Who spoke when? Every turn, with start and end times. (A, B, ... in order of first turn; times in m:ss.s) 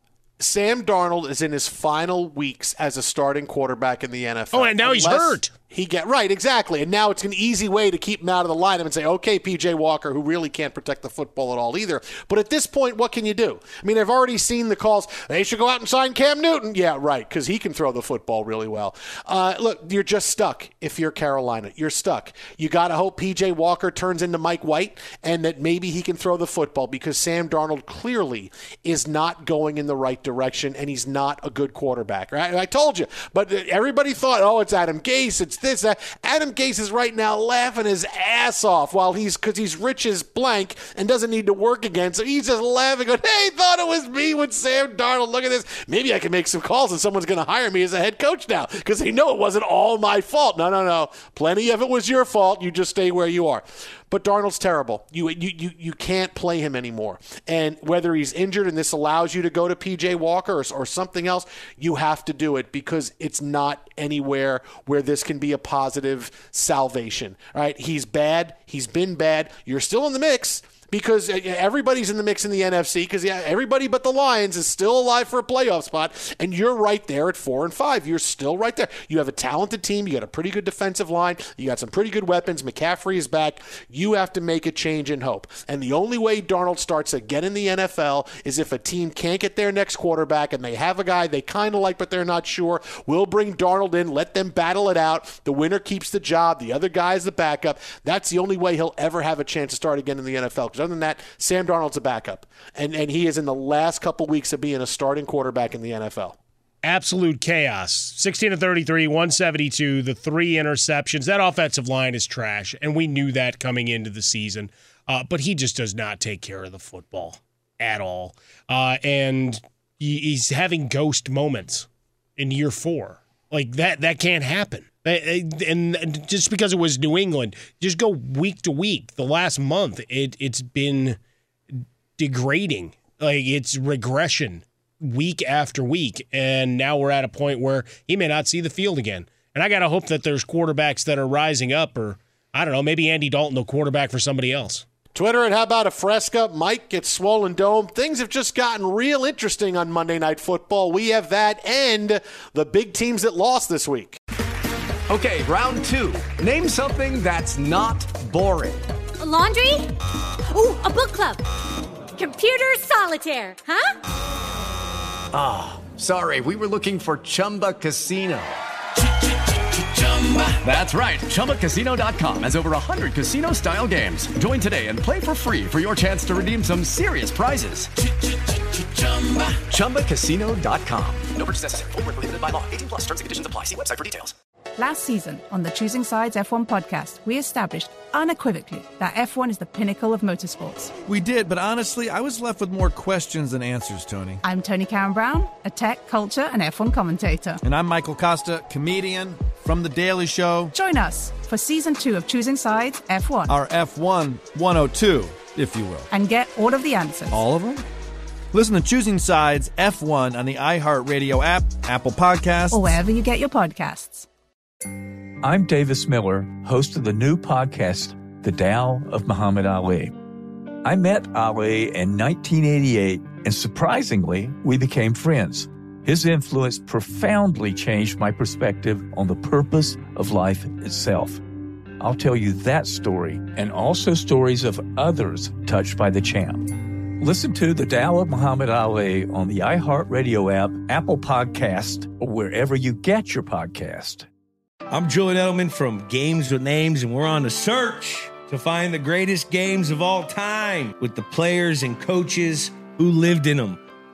0:00.4-1:46.4 A
0:04.5-0:05.5 B
1:46.8-2:11.2 B
2:11.7-2:24.8 B
2:25.2-2:34.2 A
2:35.1-2:38.8 C
2:39.2-2:39.9 D
2:40.5-2:41.4 D
2:42.2-2:44.0 D
2:45.3-2:48.6 C
2:50.6-2:57.9 C
2:59.7-3:01.3 C
3:01.3-3:04.3 E
3:04.8-3:10.9 F
3:11.1-3:14.4 G
3:14.4-3:17.6 F
3:17.6-3:20.7 G
3:20.7-3:23.5 F
3:23.5-3:26.1 G
3:26.1-3:27.4 F
3:27.3-3:27.8 G
3:28.5-3:33.0 G
3:32.7-3:34.3 F
3:35.4-3:40.1 H
3:40.8-3:51.4 H
3:52.0-4:04.3 H
4:04.9-4:13.8 I